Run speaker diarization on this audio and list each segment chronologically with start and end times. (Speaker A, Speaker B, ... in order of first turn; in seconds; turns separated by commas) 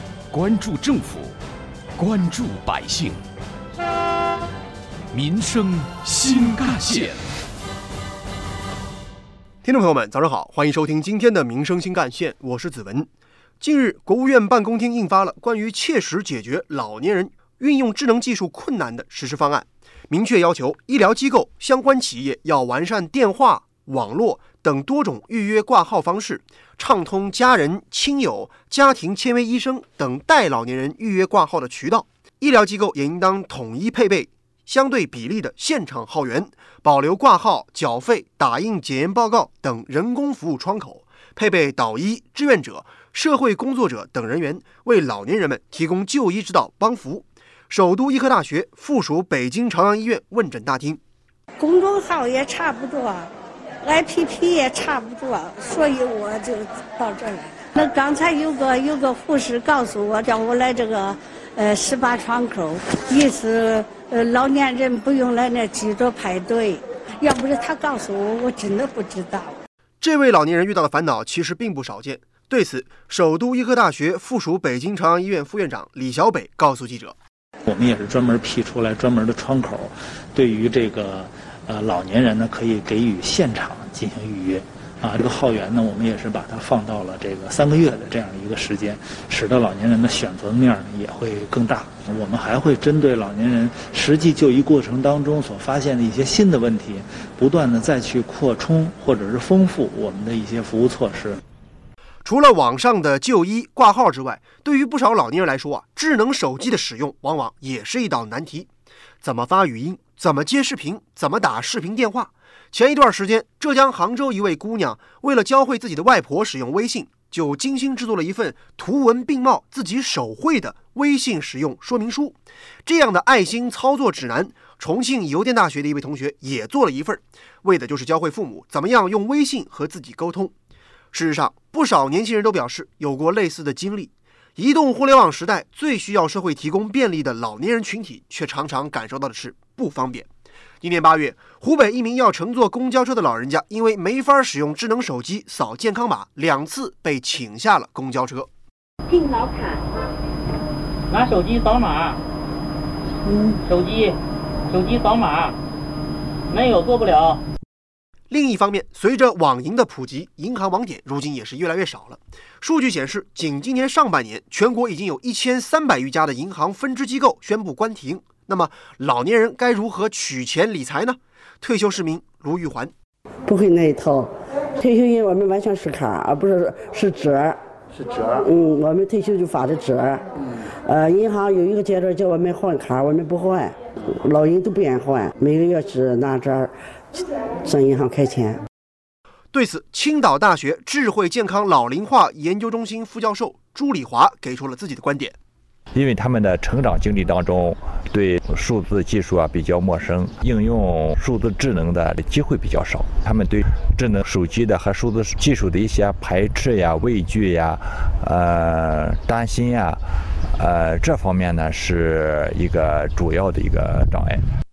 Speaker A: 0.3-1.4, Speaker A: 2.0-3.2, Speaker A: 5.1-7.2, Speaker B: 9.6-51.0, Speaker C: 51.6-53.3, Speaker C: 53.8-69.6, Speaker B: 70.0-77.2, Speaker D: 77.7-101.4, Speaker B: 102.2-108.7, Speaker B: 109.2-130.5, Speaker B: 131.1-140.3, Speaker B: 140.8-148.5, Speaker E: 151.1-152.2, Speaker E: 153.7-154.2, Speaker E: 154.7-155.6, Speaker E: 156.5-157.4, Speaker B: 158.3-172.9, Speaker F: 173.5-177.6, Speaker F: 178.2-180.2, Speaker F: 180.8-188.6, Speaker B: 189.5-195.4, Speaker G: 195.9-210.0, Speaker G: 210.6-214.4